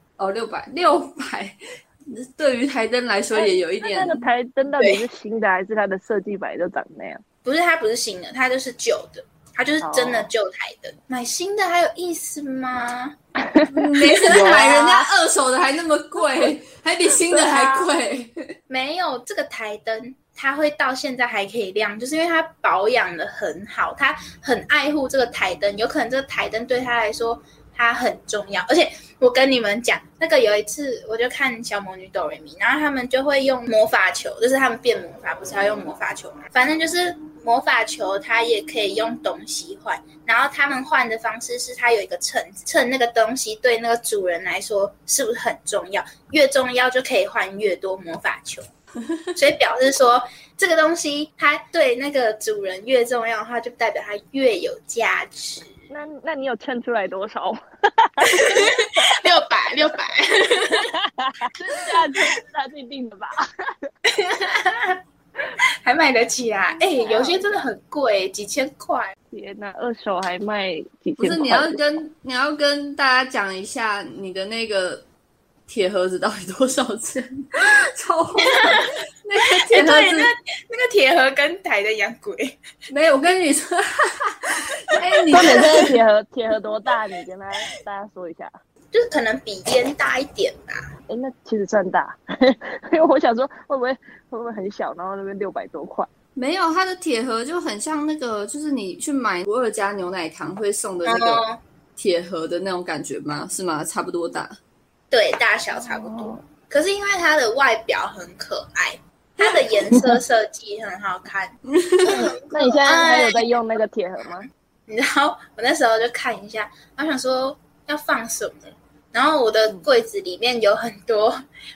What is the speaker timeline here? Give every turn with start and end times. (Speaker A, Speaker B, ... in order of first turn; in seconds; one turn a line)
Speaker A: 0.2-4.3
Speaker B: 3.4-7.2
Speaker C: 7.5-13.2
Speaker B: 9.8-10.3
Speaker B: 13.4-15.0
Speaker A: 13.7-18.6
Speaker B: 17.3-17.8
Speaker C: 18.7-48.6
Speaker C: 49.4-55.7
Speaker B: 55.9-59.2
Speaker C: 58.2-60.9
Speaker B: 60.9-63.9
Speaker C: 61.6-62.3
Speaker C: 64.1-65.0
Speaker C: 65.8-69.1
Speaker B: 66.9-67.6
Speaker B: 69.3-71.8
Speaker A: 71.2-75.0
Speaker A: 75.7-80.3
Speaker C: 78.5-78.9
Speaker C: 79.6-82.6
Speaker A: 82.9-85.9
Speaker B: 85.3-88.5
Speaker C: 88.9-90.8
Speaker B: 91.1-96.1
Speaker A: 96.4-101.4
Speaker C: 101.0-101.6
Speaker A: 102.0-104.6
Speaker C: 105.1-113.6
Speaker B: 105.9-106.4
Speaker A: 111.7-112.3
Speaker B: 112.1-114.5
Speaker C: 114.2-121.4